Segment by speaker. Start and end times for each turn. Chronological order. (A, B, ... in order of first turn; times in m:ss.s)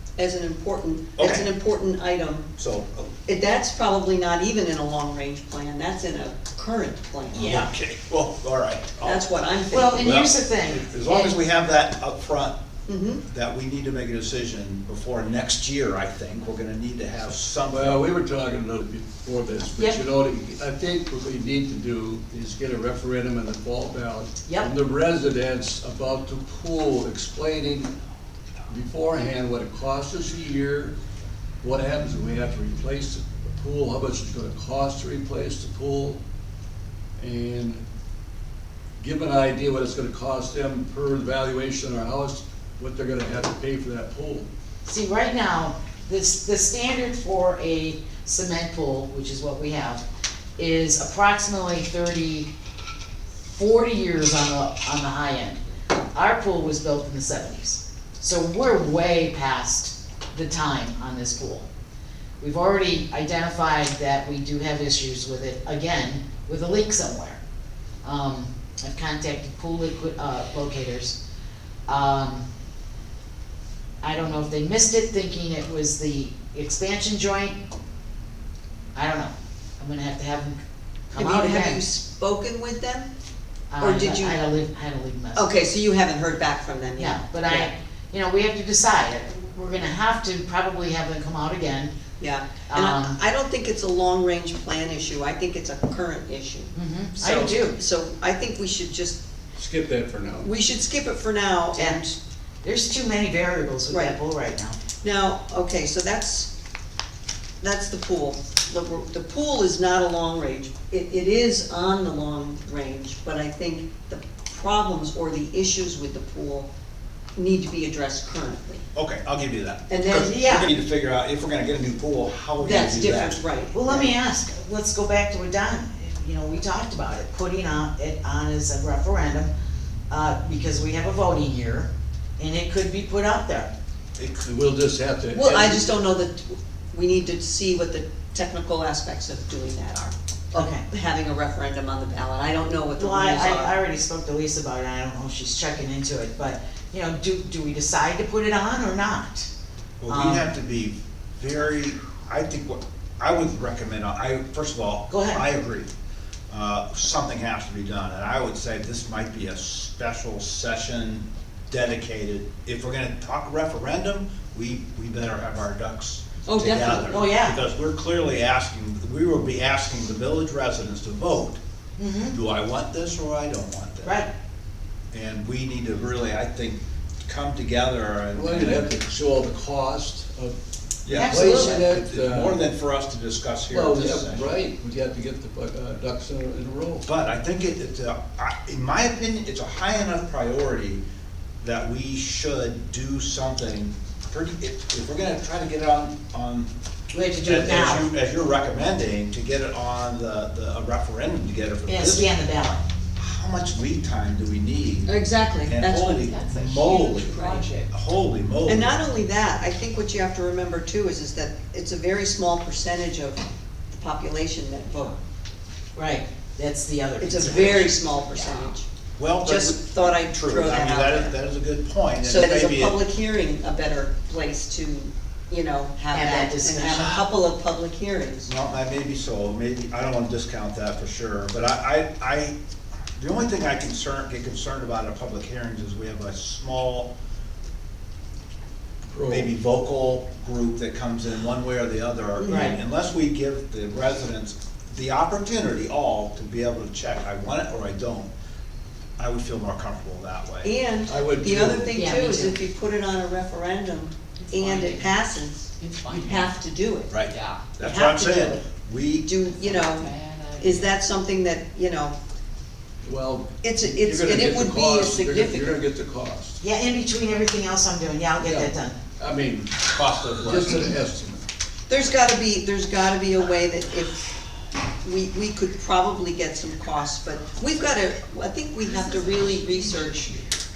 0:00.2-0:02.5 A
0:01.2-0:01.5 B
0:02.6-0:03.1 B
0:03.2-0:07.5 A
0:07.3-0:07.7 C
0:07.3-0:09.3 B
0:09.0-0:10.2 A
0:09.7-0:11.4 C
0:10.0-0:12.6 B
0:12.9-0:13.2 A
0:13.3-0:18.0 B
0:17.7-0:27.9 D
0:24.5-0:24.7 C
0:28.7-0:31.0 D
0:31.6-0:36.2 D
0:37.2-0:37.8 D
0:39.0-0:44.5 D
0:44.8-0:50.0 C
0:50.6-0:52.5 C
0:53.4-0:55.6 C
0:56.1-1:01.7 C
1:02.4-1:07.4 C
1:08.0-1:11.2 C
1:11.9-1:12.4 C
1:14.0-1:17.6 C
1:18.9-1:21.8 C
1:21.1-1:23.1 A
1:23.7-1:25.4 C
1:23.8-1:24.4 A
1:25.3-1:27.7 A
1:27.0-1:31.9 C
1:32.2-1:39.2 A
1:32.7-1:33.2 C
1:36.8-1:37.8 C
1:39.6-1:40.5 D
1:40.4-1:42.2 A
1:42.6-1:44.8 C
1:43.9-1:44.1 A
1:45.0-1:46.5 A
1:47.6-1:56.7 A
1:57.4-1:58.8 A
1:58.9-2:03.4 B
1:59.9-2:00.3 A
2:00.1-2:00.7 C
2:02.6-2:04.1 A
2:03.7-2:09.5 C
2:10.1-2:13.7 C
2:14.2-2:15.9 D
2:15.3-2:23.8 A
2:20.5-2:20.8 C
2:23.0-2:29.5 C
2:30.0-2:35.9 B
2:30.1-2:30.5 C
2:35.1-2:35.4 C
2:36.5-2:51.6 B
2:46.4-2:47.2 A
2:47.1-2:47.6 C
2:52.0-2:52.4 C
2:52.3-2:54.2 B
2:54.0-2:54.3 C
2:55.1-2:58.9 B
2:58.3-3:00.5 D
3:01.0-3:04.4 B
3:01.1-3:01.8 C
3:01.2-3:02.6 D
3:03.7-3:07.0 D
3:07.0-3:11.0 B
3:11.6-3:16.7 B
3:17.1-3:18.1 C
3:17.4-3:22.3 B
3:21.9-3:22.8 C
3:23.2-3:28.9 B
3:25.1-3:27.9 A
3:28.7-3:35.2 A
3:35.9-3:38.0 C
3:37.2-3:38.9 A
3:39.2-3:43.0 B
3:39.4-3:41.4 A
3:42.2-3:48.5 A
3:46.1-3:47.2 C
3:46.9-3:47.2 B
3:48.4-3:52.6 B
3:53.2-3:57.1 B
3:59.1-3:59.5 D
3:59.3-4:08.3 B
4:02.4-4:02.8 A
4:02.5-4:02.8 C
4:09.2-4:10.7 B
4:10.6-4:17.2 A
4:11.1-4:11.9 D
4:11.9-4:12.6 C
4:14.6-4:14.9 C
4:15.8-4:16.4 C
4:17.1-4:19.3 B
4:17.3-4:17.6 C
4:17.8-4:18.6 A
4:19.2-4:22.2 A
4:20.0-4:20.3 C
4:23.0-4:26.6 D
4:23.6-4:25.8 A
4:26.6-4:29.0 C
4:28.4-4:31.4 D
4:29.9-4:30.8 B
4:31.9-4:34.2 A
4:35.0-4:40.5 A